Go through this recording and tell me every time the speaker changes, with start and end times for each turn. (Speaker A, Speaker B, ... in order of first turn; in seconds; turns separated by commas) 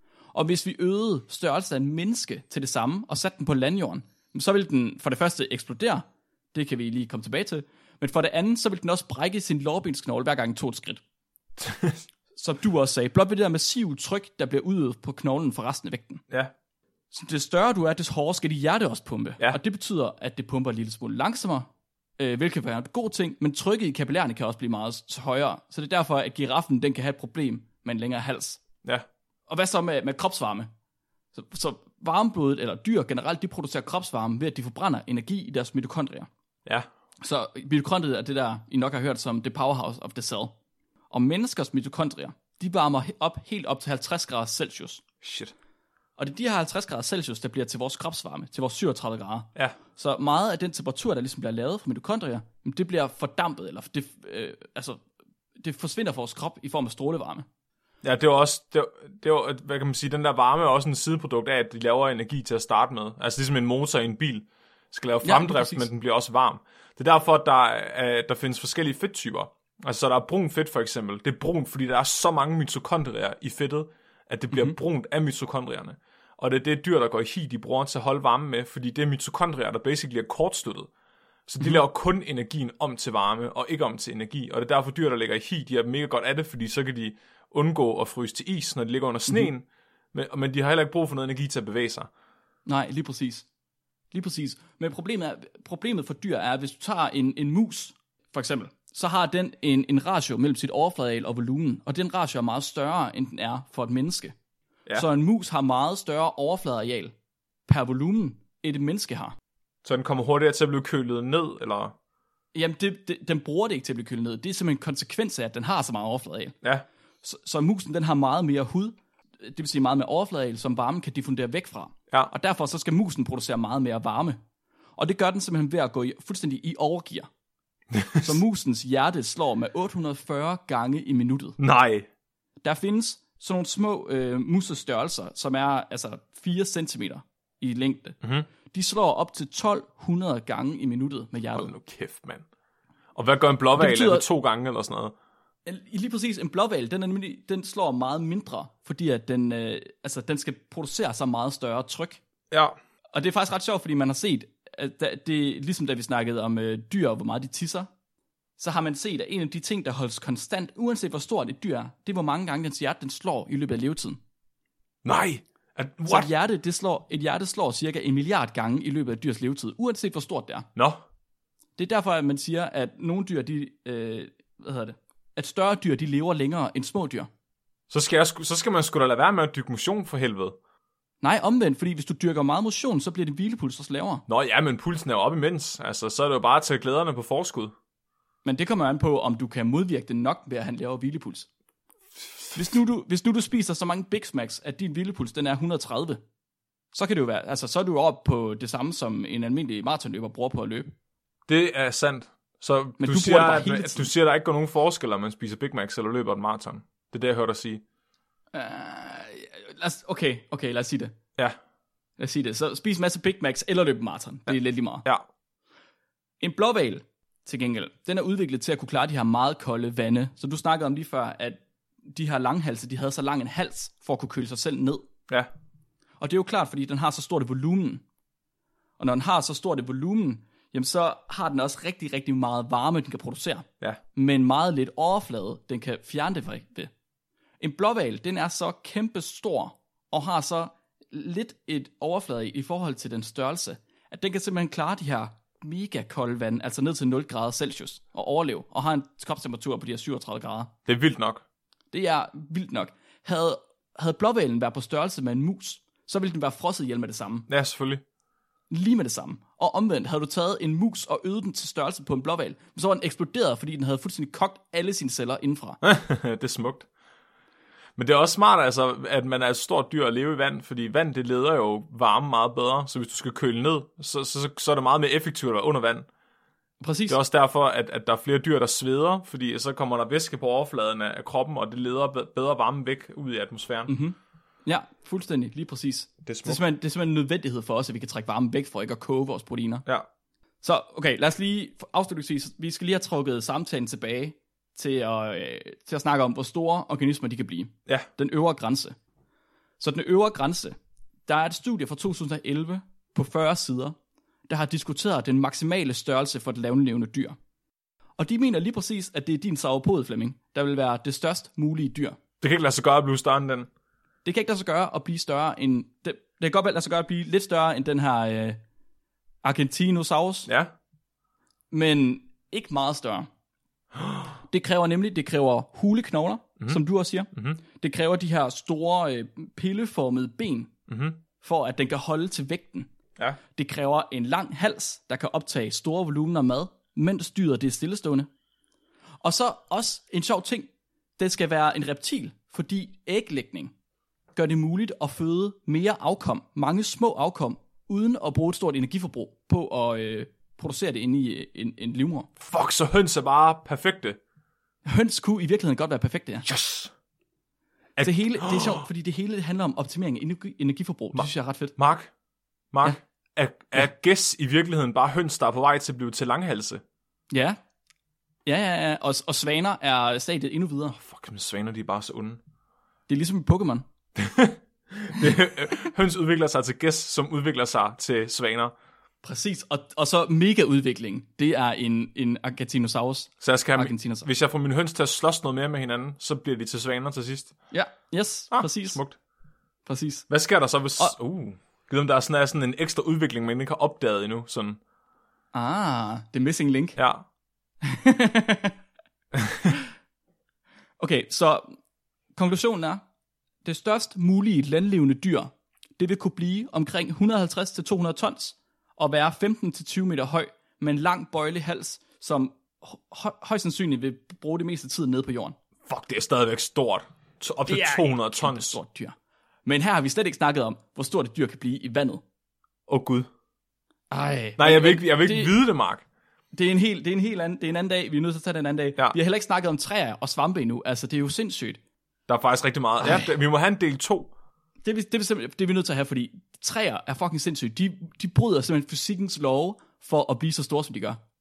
Speaker A: 0.3-11.0, Speaker B: 11.6-12.0, Speaker A: 12.3-16.2, Speaker A: 17.1-21.7, Speaker A: 22.2-28.6, Speaker A: 29.5-30.7, Speaker A: 31.3-36.3, Speaker A: 37.2-40.5, Speaker A: 41.1-45.0, Speaker B: 45.2-45.5, Speaker A: 46.2-55.0, Speaker A: 55.6-57.5, Speaker B: 58.0-80.9, Speaker A: 65.2-65.9, Speaker B: 81.5-92.1, Speaker A: 92.7-93.5, Speaker A: 94.1-104.3, Speaker A: 104.9-107.1, Speaker A: 107.7-109.3, Speaker B: 109.8-111.9, Speaker A: 112.5-116.5, Speaker A: 117.2-124.4, Speaker A: 125.0-127.3, Speaker B: 127.9-128.4, Speaker A: 128.2-131.6, Speaker B: 131.6-132.1, Speaker A: 132.6-138.2, Speaker A: 138.7-141.7, Speaker B: 141.5-142.4, Speaker B: 143.2-145.1, Speaker A: 143.8-144.2, Speaker A: 145.7-152.2, Speaker B: 152.5-152.8, Speaker A: 153.1-157.9, Speaker A: 158.6-164.2, Speaker B: 165.0-166.3, Speaker A: 166.1-170.7, Speaker A: 171.8-177.3, Speaker B: 177.9-180.6, Speaker A: 181.2-184.2, Speaker B: 184.3-187.7, Speaker A: 188.4-191.5, Speaker A: 192.6-196.2, Speaker A: 196.9-200.9, Speaker B: 201.5-207.8, Speaker A: 203.0-204.1, Speaker A: 208.5-211.1, Speaker A: 212.2-215.1, Speaker A: 216.4-225.0, Speaker A: 226.2-228.0, Speaker A: 229.0-236.9, Speaker A: 237.6-250.7, Speaker B: 250.9-251.4, Speaker A: 251.9-257.5, Speaker B: 257.5-258.0, Speaker A: 258.7-265.8, Speaker B: 265.8-266.9, Speaker B: 268.0-276.1, Speaker A: 276.8-277.2, Speaker B: 277.1-283.9, Speaker A: 283.9-289.8, Speaker B: 286.2-286.6, Speaker A: 290.6-298.9, Speaker A: 299.8-300.8, Speaker A: 301.3-304.0, Speaker A: 304.5-307.4, Speaker A: 308.2-312.2, Speaker B: 312.4-313.7, Speaker A: 314.2-318.6, Speaker A: 319.4-320.5, Speaker A: 321.7-323.3, Speaker B: 324.0-324.3, Speaker A: 324.5-330.7, Speaker B: 327.3-327.6, Speaker B: 330.9-331.2, Speaker A: 331.4-332.9, Speaker A: 333.6-338.3, Speaker A: 339.2-343.7, Speaker A: 344.4-352.3, Speaker B: 352.4-354.2, Speaker A: 354.9-356.5, Speaker B: 356.5-356.9, Speaker B: 358.0-358.9, Speaker A: 358.0-361.8, Speaker B: 361.1-362.1, Speaker B: 362.7-366.8, Speaker A: 367.3-367.6, Speaker A: 368.5-371.0, Speaker B: 371.0-372.4, Speaker A: 373.1-373.9, Speaker B: 374.2-378.7, Speaker A: 379.2-384.3, Speaker B: 383.4-387.5, Speaker A: 387.7-389.0, Speaker B: 388.5-389.1, Speaker A: 389.9-390.3, Speaker B: 390.3-394.8, Speaker A: 395.5-397.0, Speaker B: 397.0-397.2, Speaker A: 397.8-398.8, Speaker B: 399.4-399.7, Speaker A: 401.0-401.8, Speaker A: 402.4-403.0, Speaker A: 403.6-415.6, Speaker B: 415.9-418.8, Speaker A: 417.7-419.1, Speaker A: 419.7-422.2, Speaker B: 422.9-423.3, Speaker A: 424.1-425.5, Speaker B: 424.6-426.0, Speaker A: 426.5-431.8, Speaker B: 432.3-434.3, Speaker A: 433.0-433.3, Speaker A: 434.8-441.2